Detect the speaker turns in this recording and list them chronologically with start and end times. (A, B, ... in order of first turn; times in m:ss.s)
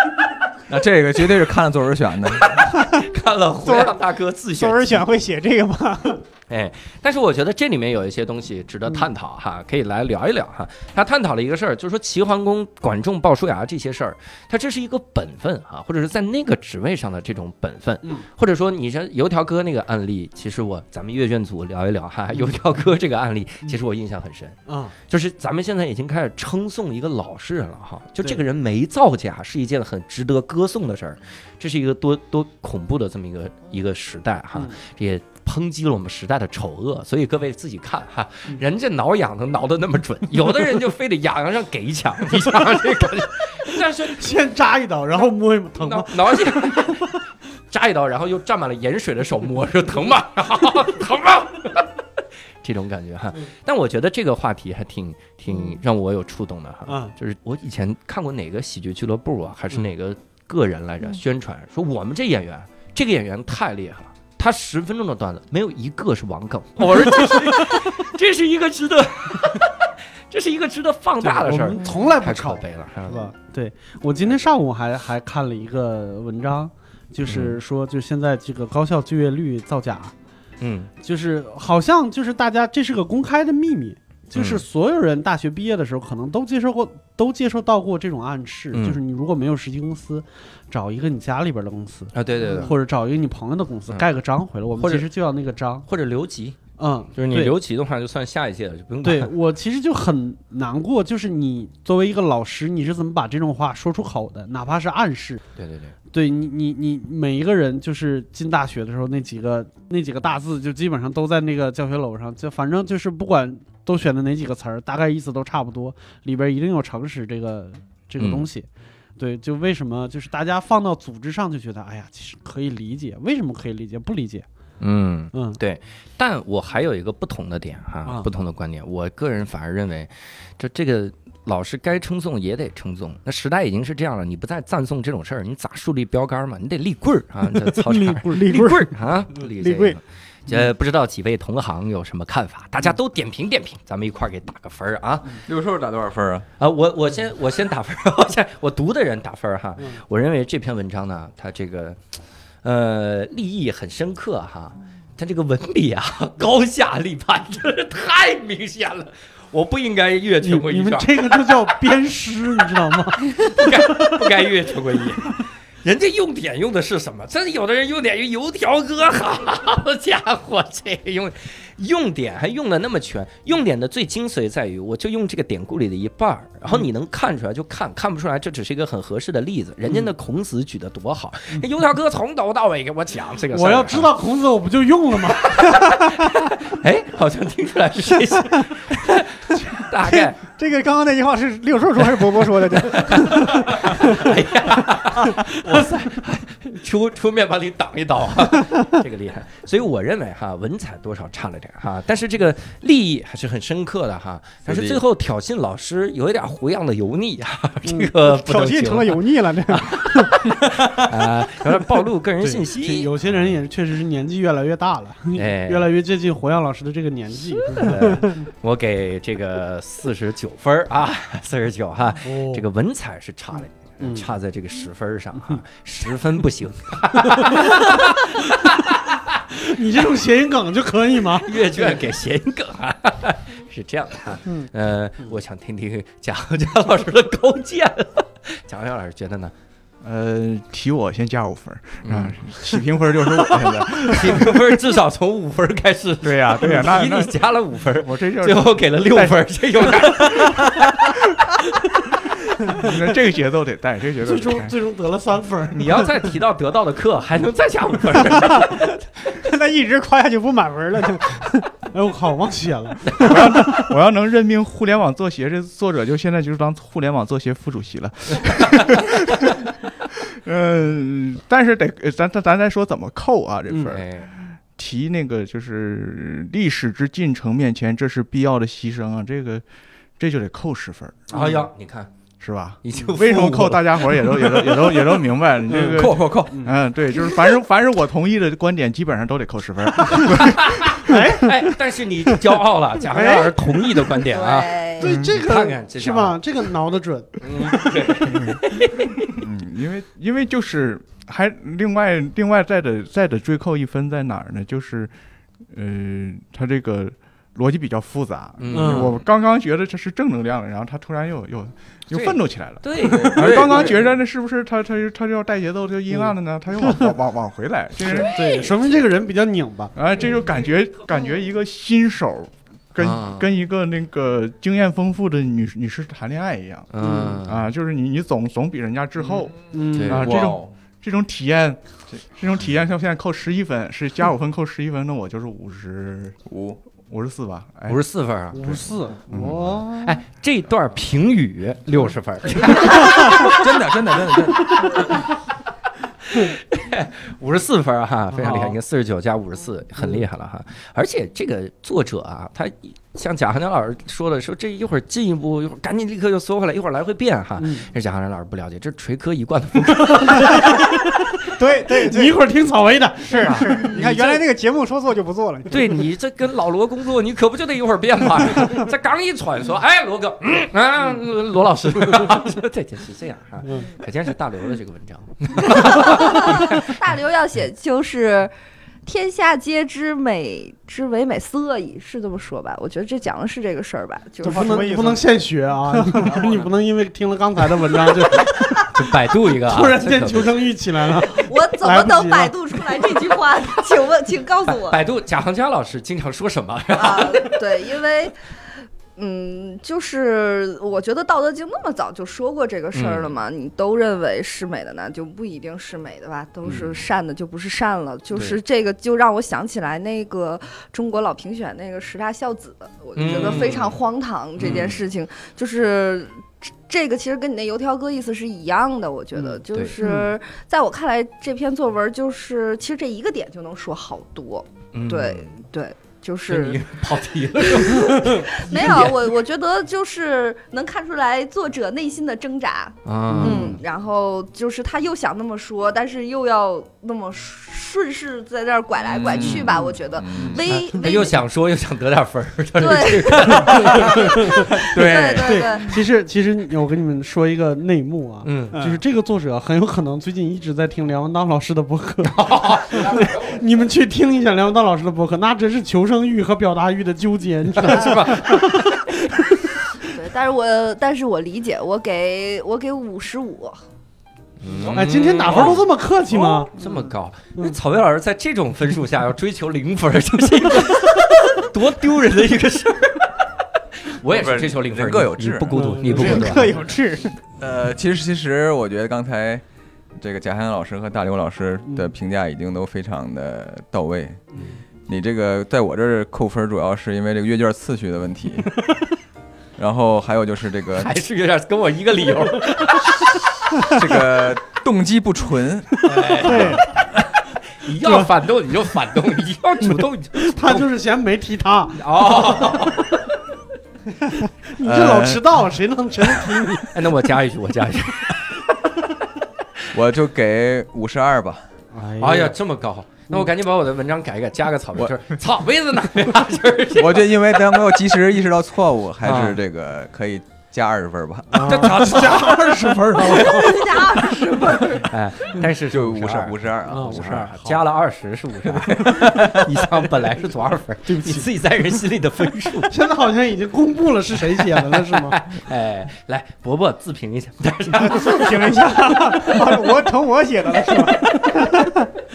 0:00.7-0:02.5 A
0:02.3-0:05.0 B
0:03.6-0:04.0 C
0:04.6-0:06.2 C
0:06.5-0:44.4 B
0:24.7-0:24.9 D
0:44.0-0:47.1 D
0:45.8-0:47.1 B
0:47.7-0:51.9 B
0:52.6-1:13.3 B
0:56.9-0:57.1 D
1:11.2-1:20.1 D
1:17.2-1:17.6 B
1:20.6-1:20.9 B
1:21.0-1:35.8 D
1:24.3-1:24.6 B
1:28.7-1:29.0 B
1:32.1-1:32.8 B
1:34.7-1:35.1 B
1:35.8-1:36.6 B
1:36.8-1:37.5 D
1:37.1-1:39.3 B
1:39.0-1:45.4 D
1:45.6-1:46.0 B
1:46.1-1:58.7 D
1:58.2-1:58.5 B
1:59.2-2:04.4 D
2:04.8-2:25.4 B
2:05.3-2:05.6 D
2:17.6-2:18.9 C
2:19.5-2:20.0 C
2:25.4-2:26.5 A
2:26.6-2:32.0 B
2:32.6-2:41.6 B
2:40.4-2:44.3 D
2:43.4-3:04.1 B
3:03.5-3:05.6 D
3:05.3-3:10.4 B
3:10.0-3:14.3 C
3:12.2-3:33.5 B
3:24.6-3:25.0 A
3:28.2-3:30.4 C
3:32.4-3:38.4 D
3:35.3-3:35.9 B
3:37.7-3:49.4 B
3:42.2-3:42.6 D
3:44.0-3:44.3 D
3:47.2-3:48.0 D
3:49.5-3:52.0 D
3:51.4-3:59.5 B
4:00.0-4:04.8 E
4:02.0-4:02.6 B
4:03.8-4:10.9 B
4:06.2-4:07.4 E
4:08.0-4:10.6 E
4:12.7-4:14.7 E
4:14.2-4:16.2 D
4:15.7-4:19.0 B
4:19.4-4:21.7 C
4:21.9-4:23.3 D
4:23.2-4:29.6 E
4:30.2-4:39.6 E
4:33.9-4:34.3 B
4:40.2-4:41.5 E
4:41.3-4:41.7 D
4:41.3-4:42.1 B
4:42.4-4:50.8 E
4:42.8-4:44.9 B
4:45.7-4:46.7 D
4:45.9-4:46.6 A
4:50.4-4:56.4 B
4:51.0-4:51.6 D
4:53.1-4:53.5 D
4:54.3-4:55.2 F
4:55.0-4:58.4 D
4:57.4-4:59.4 B
4:58.2-4:58.6 E
4:59.3-5:05.1 E
5:05.7-5:18.3 E
5:08.6-5:09.1 B
5:08.7-5:09.1 D
5:12.1-5:14.0 B
5:13.2-5:14.0 A
5:18.0-5:19.9 D
5:18.2-5:18.7 B
5:19.9-5:29.5 E
5:23.0-5:23.5 B
5:26.9-5:27.7 B
5:27.0-5:27.4 D
5:29.3-5:30.7 A
5:29.7-5:30.3 D
5:29.9-5:30.4 B
5:30.0-5:36.4 E
5:36.4-5:36.8 A
5:37.0-5:38.0 E
5:37.9-5:38.8 B
5:38.5-5:40.0 D
5:39.3-5:39.8 E
5:39.9-5:43.7 B
5:42.9-5:45.1 A
5:44.8-5:45.2 B
5:46.3-6:00.9 B
5:48.3-5:48.8 D
5:57.6-5:57.8 D
6:00.0-6:01.2 D
6:01.5-6:02.4 C
6:01.8-6:04.0 D
6:03.2-6:06.0 C
6:03.4-6:04.4 B
6:05.7-6:17.0 B
6:13.6-6:13.9 D
6:15.6-6:18.5 F
6:19.0-6:24.8 F
6:24.4-6:25.3 C
6:24.4-6:28.9 D
6:25.9-6:26.3 C
6:26.4-6:26.6 B
6:28.9-6:30.7 B
6:29.5-6:32.5 D
6:31.3-6:35.0 F
6:34.7-6:37.6 B
6:36.9-6:38.4 F
6:39.2-7:06.8 F
6:42.9-6:43.4 B
6:46.6-6:46.9 B
6:48.3-6:48.6 B
6:53.2-6:54.0 B
6:54.6-6:55.0 B
6:59.4-7:00.0 B
7:04.9-7:05.6 B
7:06.5-7:09.3 B
7:07.6-7:21.4 F
7:13.0-7:13.8 B
7:13.3-7:13.7 D
7:19.1-7:20.6 A
7:19.3-7:19.8 B
7:20.6-7:24.6 B
7:22.8-7:26.0 F
7:23.9-7:25.6 A
7:25.4-7:38.9 D
7:28.4-7:28.7 B
7:28.7-7:29.0 C
7:32.2-7:33.6 B
7:37.8-7:39.0 B
7:38.0-7:38.4 F
7:40.0-7:43.8 F
7:44.6-7:53.4 B
7:44.9-7:46.9 D
7:54.0-7:56.8 B
7:54.3-7:56.1 A
7:55.7-7:56.8 D
7:56.1-7:57.3 C
7:57.6-7:59.6 A
8:00.2-8:04.4 A
8:05.1-8:08.7 A
8:09.8-8:11.1 A
8:11.0-8:14.0 B
8:13.8-8:16.1 A
8:16.0-8:20.9 B
8:16.4-8:16.8 D
8:16.4-8:16.8 C
8:18.0-8:18.3 D
8:19.9-8:23.0 D
8:22.0-8:23.2 B
8:24.7-8:27.0 D
8:24.8-8:25.6 A
8:26.9-8:28.4 B
8:29.9-8:31.6 A
8:31.9-8:32.5 D
8:32.2-8:37.6 B
8:37.0-8:41.8 A
8:39.2-8:39.6 B
8:41.5-8:43.8 D
8:41.6-8:52.9 B
8:43.3-8:45.1 F
8:45.9-8:47.6 A
8:46.9-8:47.8 D
8:48.8-8:49.6 A
8:51.0-8:51.5 D
8:52.9-8:55.4 D
8:54.6-8:58.9 B
8:58.0-9:02.1 C